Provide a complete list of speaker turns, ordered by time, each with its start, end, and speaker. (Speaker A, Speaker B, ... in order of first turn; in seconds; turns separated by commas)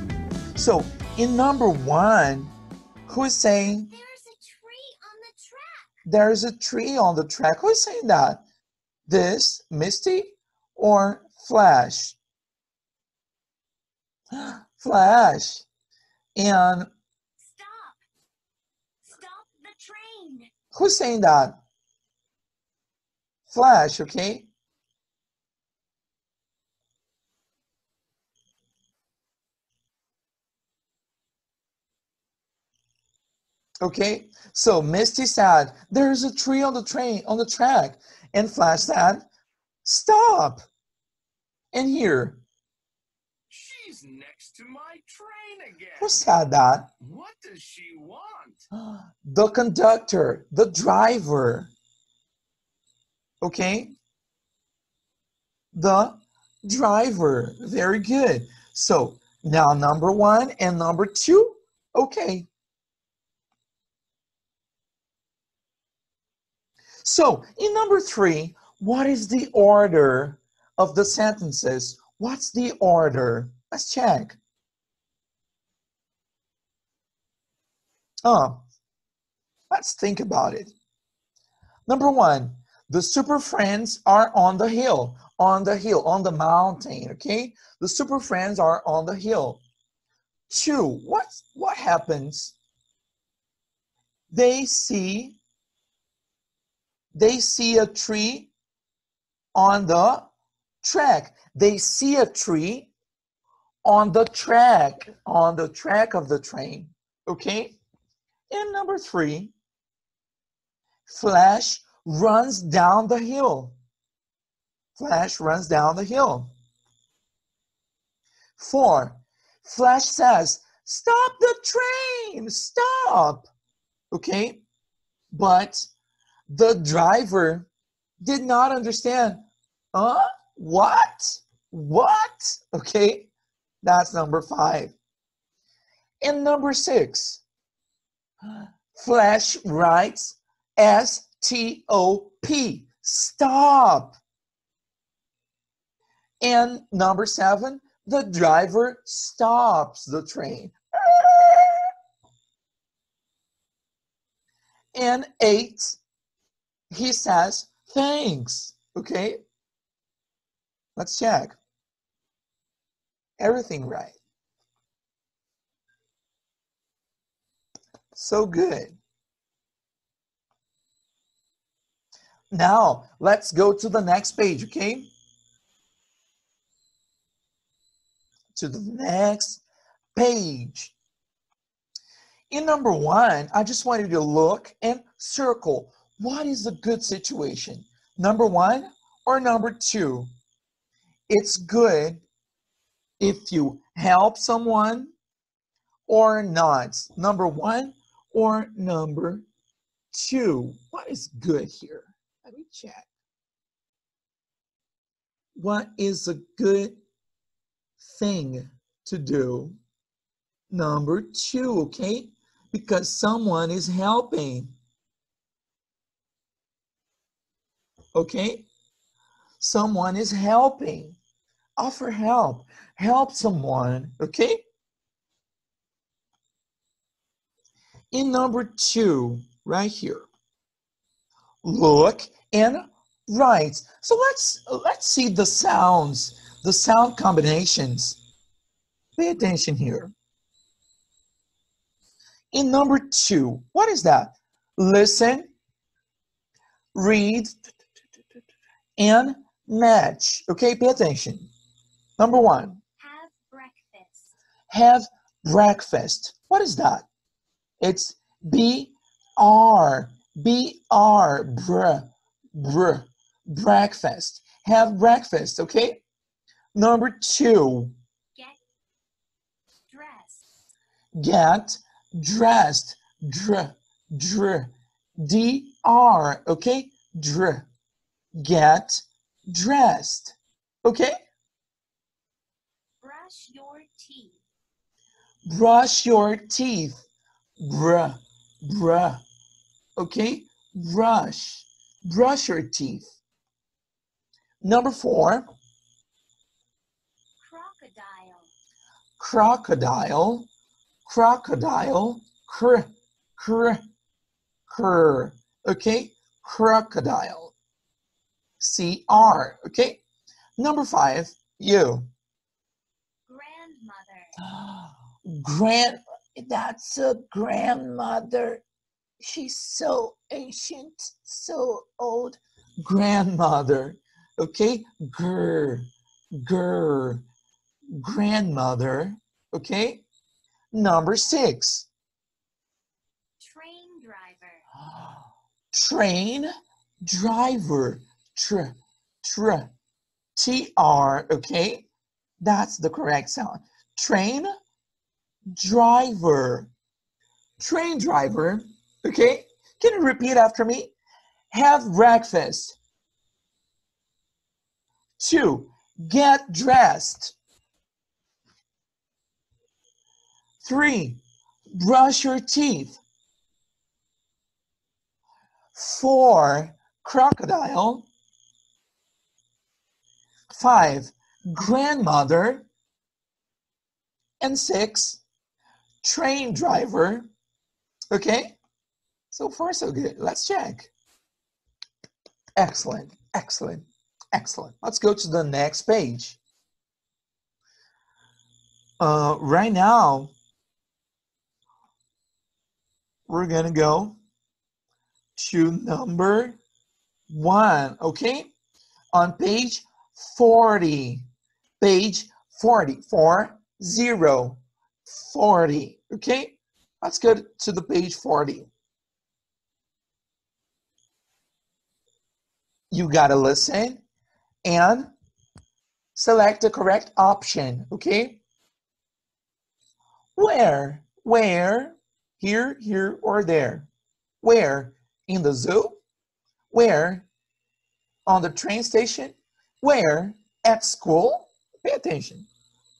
Speaker A: 0.6-2.5, Speaker A: 3.1-3.9, Speaker B: 3.6-6.0, Speaker A: 6.0-8.4, Speaker A: 9.1-12.2, Speaker A: 14.3-15.7, Speaker A: 16.4-16.9, Speaker B: 17.4-18.0, Speaker B: 19.0-20.5, Speaker A: 20.7-21.6, Speaker A: 23.5-24.5, Speaker A: 33.8-39.2, Speaker A: 39.8-40.6, Speaker A: 41.7-42.4, Speaker C: 43.5-46.3, Speaker A: 46.0-46.9, Speaker C: 47.0-48.6, Speaker A: 48.7-51.7, Speaker A: 53.4-53.9, Speaker A: 55.7-62.5, Speaker A: 67.0-74.4, Speaker A: 78.2-78.7, Speaker A: 79.7-80.7, Speaker A: 81.9-89.6, Speaker A: 90.5-92.5, Speaker A: 94.3-95.4, Speaker A: 97.1-98.5, Speaker A: 99.5-100.3, Speaker A: 100.8-102.9, Speaker A: 103.8-107.8, Speaker A: 108.5-109.5, Speaker A: 111.1-113.8, Speaker A: 115.0-116.5, Speaker A: 118.6-123.5, Speaker A: 124.1-124.6, Speaker A: 125.3-125.9, Speaker A: 126.5-127.7, Speaker A: 128.2-133.3, Speaker A: 133.8-134.9, Speaker A: 136.2-137.4, Speaker A: 138.9-144.2, Speaker A: 146.4-151.9, Speaker A: 154.9-156.0, Speaker A: 156.9-159.4, Speaker A: 160.9-161.6, Speaker A: 163.4-164.2, Speaker A: 168.1-169.0, Speaker A: 172.5-175.1, Speaker A: 178.5-179.6, Speaker A: 180.1-180.9, Speaker A: 182.5-190.3, Speaker A: 191.3-192.2, Speaker A: 193.2-195.1, Speaker A: 196.1-199.4, Speaker A: 200.1-203.1, Speaker A: 205.6-207.0, Speaker A: 208.0-209.8, Speaker A: 210.7-214.8, Speaker A: 218.1-218.7, Speaker A: 219.6-221.2, Speaker A: 221.8-224.6, Speaker A: 228.1-230.3, Speaker A: 231.6-238.2, Speaker A: 239.2-240.1, Speaker A: 242.5-245.5, Speaker A: 246.9-247.6, Speaker A: 249.0-251.5, Speaker A: 252.2-252.8, Speaker B: 253.0-254.3, Speaker A: 254.7-257.1, Speaker A: 257.8-266.0, Speaker A: 266.7-267.9, Speaker B: 268.3-268.6, Speaker B: 269.8-270.5, Speaker A: 271.2-277.7, Speaker A: 278.3-281.1, Speaker B: 283.0-284.4, Speaker A: 285.5-287.0, Speaker A: 287.6-289.2, Speaker A: 290.0-293.1, Speaker A: 294.6-295.4, Speaker B: 297.4-298.5, Speaker A: 299.2-300.5, Speaker A: 301.1-303.8, Speaker A: 304.7-307.5, Speaker A: 308.6-310.0, Speaker A: 310.6-312.1, Speaker B: 313.3-314.4, Speaker A: 314.5-318.6, Speaker A: 319.2-327.2, Speaker A: 327.9-330.0, Speaker A: 330.7-331.9, Speaker B: 333.4-334.6, Speaker A: 335.7-336.5, Speaker A: 337.0-339.7, Speaker A: 340.4-341.9, Speaker A: 342.4-344.5, Speaker A: 345.5-346.7, Speaker A: 347.6-350.9, Speaker A: 351.5-352.8, Speaker A: 355.2-357.4, Speaker A: 360.6-363.0, Speaker A: 365.7-368.1, Speaker A: 370.5-372.7, Speaker A: 374.4-375.2, Speaker A: 376.0-377.3, Speaker A: 378.1-378.6, Speaker A: 379.3-380.9, Speaker A: 382.6-386.4, Speaker A: 389.0-390.3, Speaker A: 393.3-394.2, Speaker A: 395.4-396.6, Speaker A: 397.3-398.5, Speaker A: 399.1-401.3, Speaker A: 401.8-408.7, Speaker A: 412.9-414.0, Speaker A: 414.6-415.1, Speaker A: 416.1-418.4, Speaker A: 420.4-423.9, Speaker A: 424.4-426.0, Speaker A: 426.7-427.3, Speaker A: 428.2-432.5